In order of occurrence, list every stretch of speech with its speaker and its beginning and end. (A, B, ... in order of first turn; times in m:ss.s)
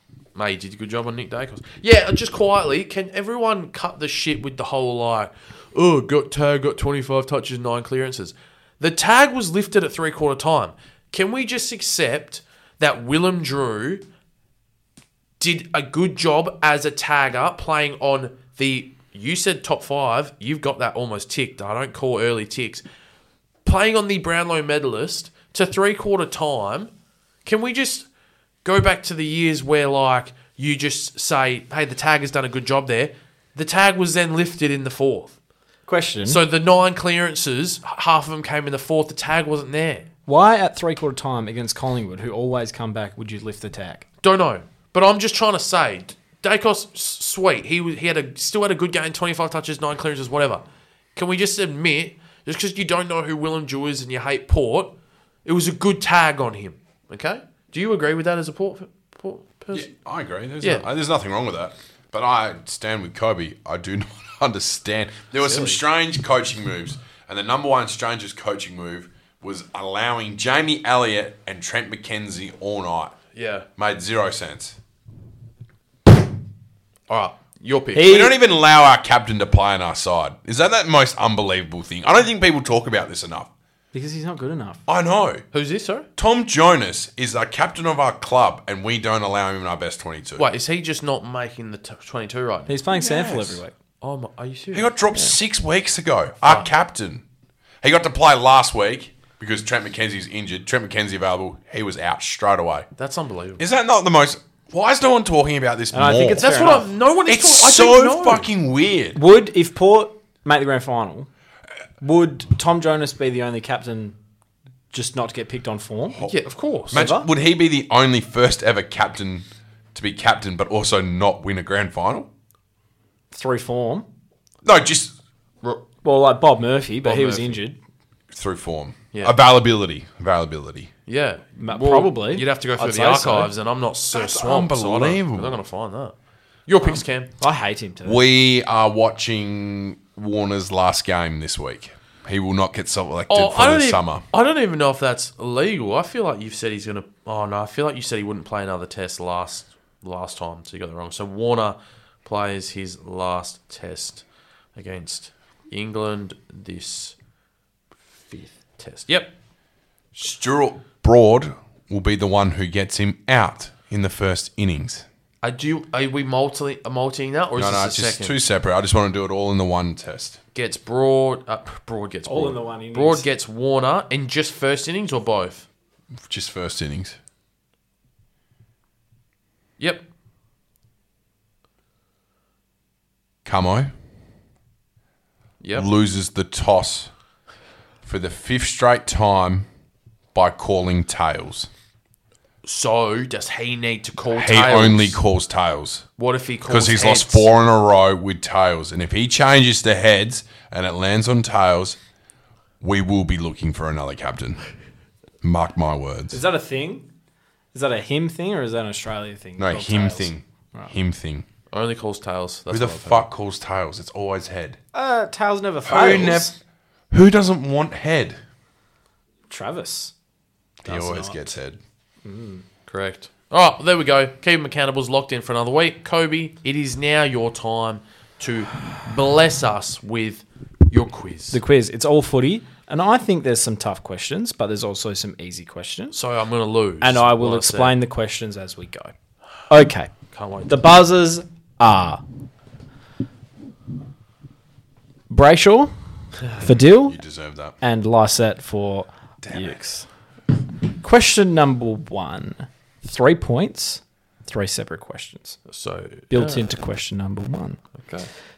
0:00.3-0:14.0 A
0:15.4-0:22.8 A
0:23.6-0:26.9 A
0:27.4-0:28.1 A
0:28.6-0:35.3 A
0:35.9-0:36.4 B
0:36.2-0:40.0 A
0:40.3-0:44.0 B
0:44.2-0:50.6 A
0:51.1-0:54.9 A
0:55.4-0:59.9 A
0:59.7-1:13.2 C
1:00.6-1:00.9 A
1:05.4-1:05.8 A
1:13.3-1:13.6 A
1:13.8-1:14.8 C
1:17.1-1:18.2 A
1:17.9-1:18.3 B
1:18.0-1:23.5 C
1:23.9-1:24.8 B
1:24.9-1:25.4 C
1:25.5-1:26.0 A
1:26.2-1:30.5 C
1:30.4-1:32.7 A
1:32.7-1:33.7 B
1:32.9-1:33.6 C
1:34.0-1:34.9 A
1:34.7-1:37.2 C
1:37.8-1:42.9 C
1:43.0-1:43.6 A
1:43.6-1:46.5 C
1:45.9-1:46.9 B
1:46.4-1:48.5 A
1:47.3-1:49.2 C
1:49.2-1:51.3 B
1:52.0-1:54.2 B
1:54.9-1:56.2 B
1:56.2-1:57.0 A
1:56.9-2:02.3 C
1:56.9-1:57.3 B
2:03.3-2:04.0 B
2:04.6-2:05.1 C
2:06.0-2:07.8 B
2:07.0-2:07.6 A
2:08.3-2:10.9 C
2:11.1-2:16.1 A
2:11.6-2:13.5 B
2:14.1-2:15.6 C
2:16.7-2:17.3 A
2:17.4-2:18.2 B
2:18.0-2:24.2 C
2:23.3-2:34.2 A
2:34.8-2:37.2 A
2:38.2-2:39.3 A
2:40.1-2:45.0 C
2:45.4-2:48.3 A
2:47.6-2:50.4 C
2:50.5-2:55.6 A
2:52.3-2:53.2 B
2:56.2-2:57.2 C
3:03.4-3:03.9 C
3:05.6-3:05.9 A
3:05.7-3:07.1 C
3:08.0-3:09.7 C
3:10.3-3:11.7 C
3:12.6-3:15.2 A
3:14.3-3:16.0 C
3:16.2-3:17.5 A
3:16.7-3:22.0 C
3:22.8-3:24.6 C
3:25.4-3:26.4 C
3:26.3-3:27.0 B
3:27.7-3:30.9 B
3:29.6-3:31.4 C
3:31.7-3:33.3 A
3:32.7-3:34.8 C
3:34.9-3:36.5 B
3:35.8-3:36.5 C
3:37.1-3:38.4 C
3:39.5-3:40.1 B
3:40.8-3:41.8 C
3:40.8-3:41.5 B
3:42.2-3:42.6 B
3:42.9-3:51.6 A
3:51.5-3:56.2 B
3:56.1-3:58.0 A
3:57.0-3:59.1 B
3:59.7-4:00.1 B
4:00.3-4:00.9 A
4:00.6-4:02.2 B
4:05.3-4:05.9 B
4:06.5-4:07.2 B
4:06.9-4:07.8 C
4:07.8-4:10.0 B
4:09.4-4:09.8 C
4:11.0-4:15.6 B
4:15.7-4:16.7 A
4:16.3-4:17.8 B
4:18.0-4:18.3 A